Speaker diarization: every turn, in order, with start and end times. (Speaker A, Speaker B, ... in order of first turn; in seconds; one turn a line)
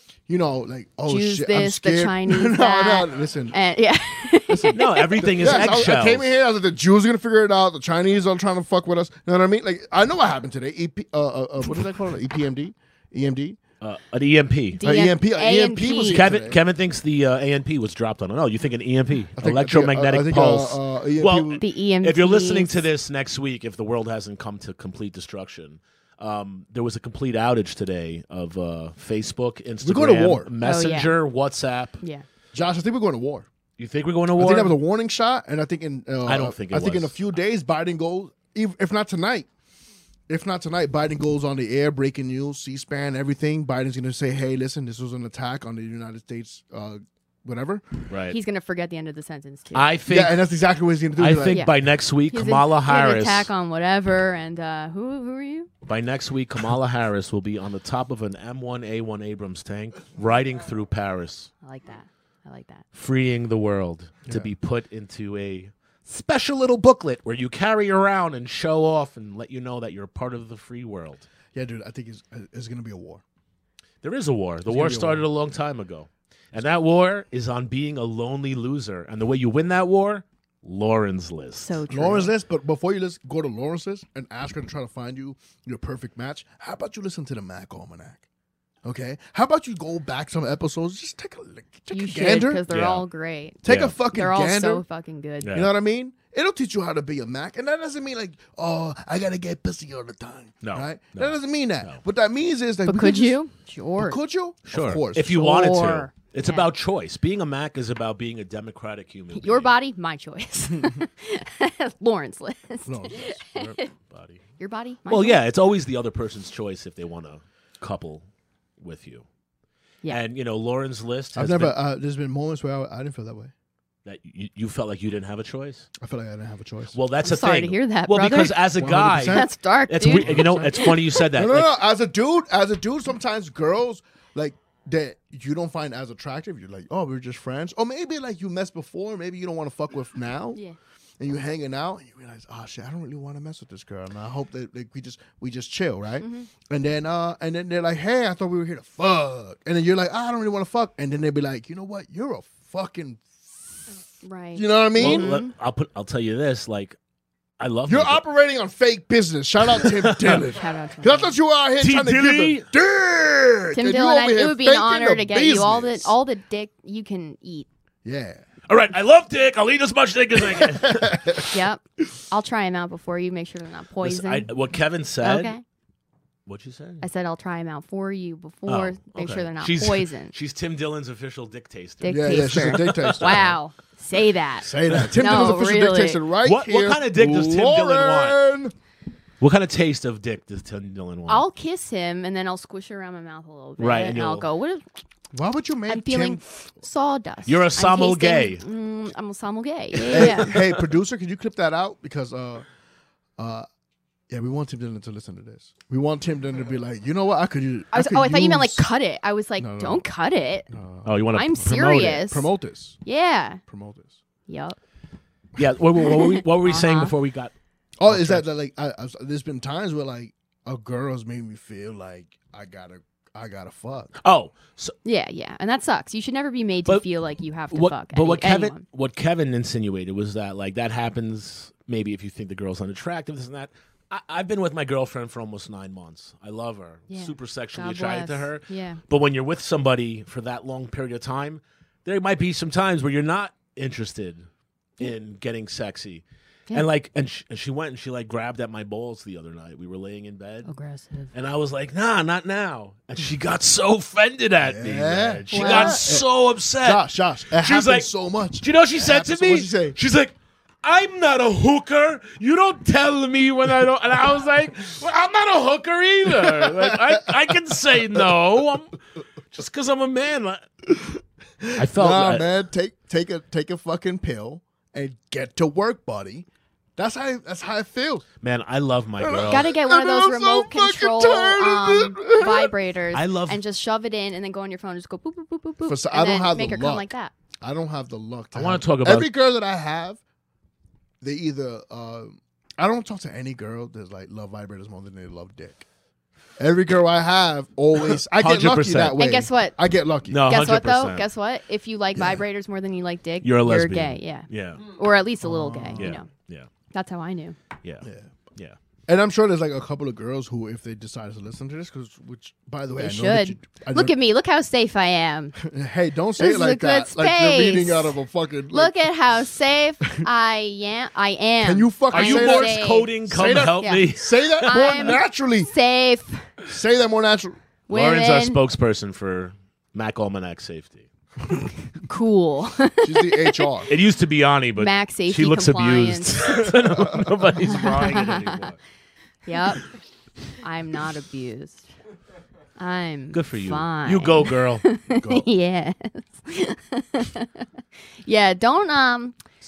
Speaker A: 0.3-3.6
Speaker B: 1.1-5.7
Speaker A: 4.5-13.6
Speaker C: 4.7-6.3
Speaker C: 13.8-14.8
Speaker B: 14.8-16.3
Speaker A: 14.8-16.6
Speaker C: 16.1-32.0
Speaker A: 19.4-21.6
Speaker B: 21.6-22.9
Speaker A: 29.8-30.5
Speaker B: 30.6-31.2
Speaker A: 32.5-33.5
Speaker C: 33.8-34.8
Speaker A: 34.4-39.5
Speaker C: 36.2-37.2
Speaker A: 40.3-48.0
Speaker C: 48.1-48.4
Speaker B: 48.3-49.9
Speaker C: 49.7-50.4
Speaker A: 50.1-51.6
Speaker C: 51.2-53.5
Speaker B: 52.3-55.7
Speaker C: 55.9-61.5
Speaker B: 61.6-62.8
Speaker C: 62.9-71.3
Speaker A: 71.5-73.2
Speaker C: 74.0-81.8
Speaker A: 74.7-75.3
Speaker B: 81.6-82.3
Speaker A: 81.9-88.2
Speaker A: 88.8-92.6
Speaker B: 91.9-95.5
Speaker C: 92.7-93.0
Speaker A: 93.6-94.8
Speaker C: 93.7-94.0
Speaker C: 95.4-95.7
Speaker A: 95.5-103.4
Speaker C: 100.6-102.0
Speaker B: 102.9-104.2
Speaker A: 104.0-105.4
Speaker C: 104.7-109.7
Speaker B: 105.3-106.7
Speaker B: 109.3-113.9
Speaker A: 112.9-113.3
Speaker C: 113.5-114.4
Speaker B: 114.6-115.4
Speaker C: 115.1-118.2
Speaker C: 118.8-119.2
Speaker C: 120.1-121.8
Speaker A: 121.3-123.5
Speaker C: 124.0-125.9
Speaker A: 126.0-127.0
Speaker C: 126.9-131.7
Speaker B: 127.2-128.6
Speaker A: 128.8-129.5
Speaker B: 129.2-130.9
Speaker A: 130.1-140.6
Speaker A: 141.2-153.9
Speaker B: 146.2-146.5
Speaker B: 154.2-155.5
Speaker A: 154.6-155.4
Speaker C: 155.0-157.0
Speaker C: 157.6-158.2
Speaker A: 157.9-166.1
Speaker C: 159.7-160.5
Speaker B: 160.4-161.4
Speaker C: 161.8-162.7
Speaker B: 163.7-167.7
Speaker A: 168.1-168.4
Speaker C: 168.7-171.5
Speaker A: 170.6-171.4
Speaker B: 171.5-174.5
Speaker C: 174.0-175.5
Speaker B: 175.2-175.6
Speaker C: 176.5-177.1
Speaker B: 177.0-180.3
Speaker C: 178.7-183.6
Speaker B: 182.0-186.2
Speaker A: 182.1-183.6
Speaker A: 184.6-188.7
Speaker C: 184.9-185.4
Speaker C: 186.4-188.4
Speaker C: 189.4-191.4
Speaker B: 191.3-194.8
Speaker C: 193.8-194.5
Speaker A: 195.3-196.4
Speaker B: 195.9-200.6
Speaker C: 197.5-198.6
Speaker C: 200.0-200.7
Speaker A: 200.1-202.7
Speaker A: 203.4-203.7
Speaker A: 204.3-208.8
Speaker B: 207.9-210.7
Speaker A: 209.6-210.1
Speaker A: 210.7-211.1
Speaker C: 211.1-212.3
Speaker B: 211.3-212.5
Speaker A: 212.2-213.0
Speaker B: 213.1-213.6
Speaker A: 213.7-214.2
Speaker B: 214.5-214.8
Speaker C: 215.6-217.5
Speaker B: 216.0-217.1
Speaker A: 218.0-224.1
Speaker C: 218.1-218.4
Speaker C: 224.2-224.9
Speaker B: 225.1-228.8
Speaker C: 227.7-244.4
Speaker B: 237.1-239.0
Speaker C: 245.0-250.7
Speaker B: 250.7-251.3
Speaker C: 251.3-269.0
Speaker A: 254.6-256.3
Speaker B: 255.5-256.2
Speaker A: 256.8-260.0
Speaker A: 266.3-268.4
Speaker C: 269.5-270.6
Speaker A: 270.9-278.2
Speaker C: 271.8-272.5
Speaker C: 278.4-279.7
Speaker A: 279.2-282.7
Speaker B: 279.5-287.3
Speaker C: 283.1-283.6
Speaker A: 285.9-287.1
Speaker A: 287.6-290.2
Speaker C: 288.6-289.3
Speaker A: 291.2-295.9
Speaker A: 296.6-300.4
Speaker C: 298.1-299.2
Speaker B: 299.1-299.8
Speaker C: 300.3-301.3
Speaker B: 300.5-306.3
Speaker C: 303.4-304.8
Speaker A: 305.4-306.2
Speaker C: 306.0-306.7
Speaker B: 306.9-307.6
Speaker C: 307.8-308.8
Speaker A: 308.0-308.3
Speaker A: 309.1-314.1
Speaker B: 313.0-315.6
Speaker A: 315.6-319.0
Speaker B: 316.4-318.2
Speaker B: 318.7-323.1
Speaker A: 321.6-325.7
Speaker C: 322.1-325.1
Speaker B: 323.8-324.1
Speaker B: 324.6-326.5
Speaker A: 326.6-327.6
Speaker B: 327.9-328.6
Speaker C: 327.9-331.1
Speaker B: 332.1-333.7
Speaker A: 333.0-333.9
Speaker C: 333.9-338.8
Speaker B: 334.8-336.7
Speaker B: 337.6-338.7
Speaker B: 339.5-339.9
Speaker B: 340.6-341.9
Speaker B: 342.8-347.7
Speaker C: 343.3-344.9
Speaker B: 348.2-349.4